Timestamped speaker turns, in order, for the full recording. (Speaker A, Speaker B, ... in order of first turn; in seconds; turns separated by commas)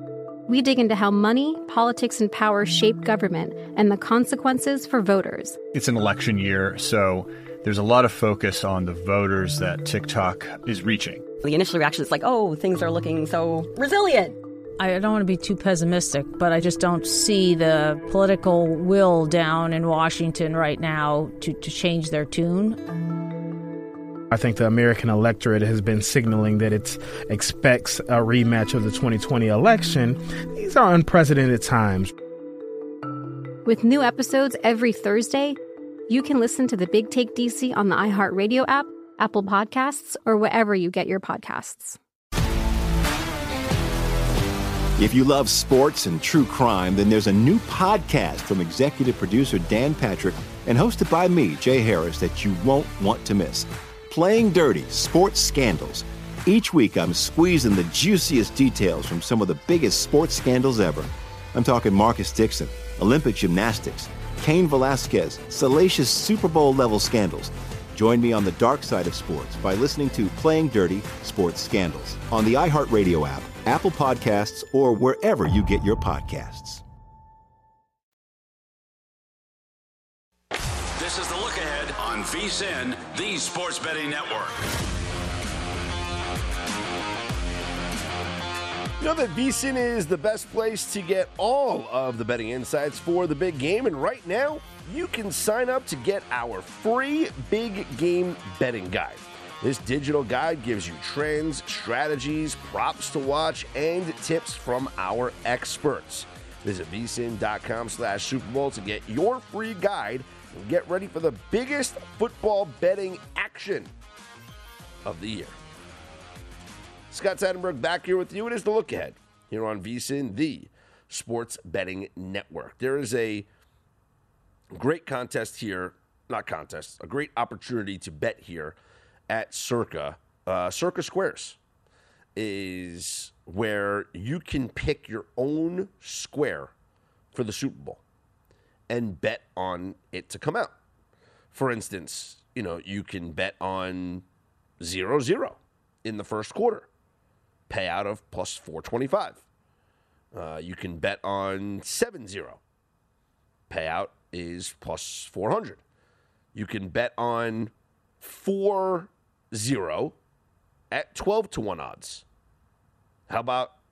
Speaker A: 0.5-5.6, Speaker B: 5.7-11.2, Speaker C: 11.4-14.4, Speaker D: 14.8-22.8, Speaker E: 24.3-32.1, Speaker A: 33.6-42.0, Speaker F: 45.0-76.8, Speaker G: 81.0-84.9, Speaker H: 89.0-113.9, Speaker H: 115.0-115.5, Speaker H: 117.1-123.5, Speaker H: 124.7-128.8, Speaker H: 129.3-131.6, Speaker H: 132.3-136.7, Speaker H: 137.3-138.0, Speaker H: 138.9-140.7, Speaker H: 141.5-144.2, Speaker H: 144.8-146.9, Speaker H: 147.7-149.4, Speaker H: 150.3-152.6, Speaker H: 153.7-155.8, Speaker H: 156.5-160.1, Speaker H: 160.9-162.2, Speaker H: 163.3-163.7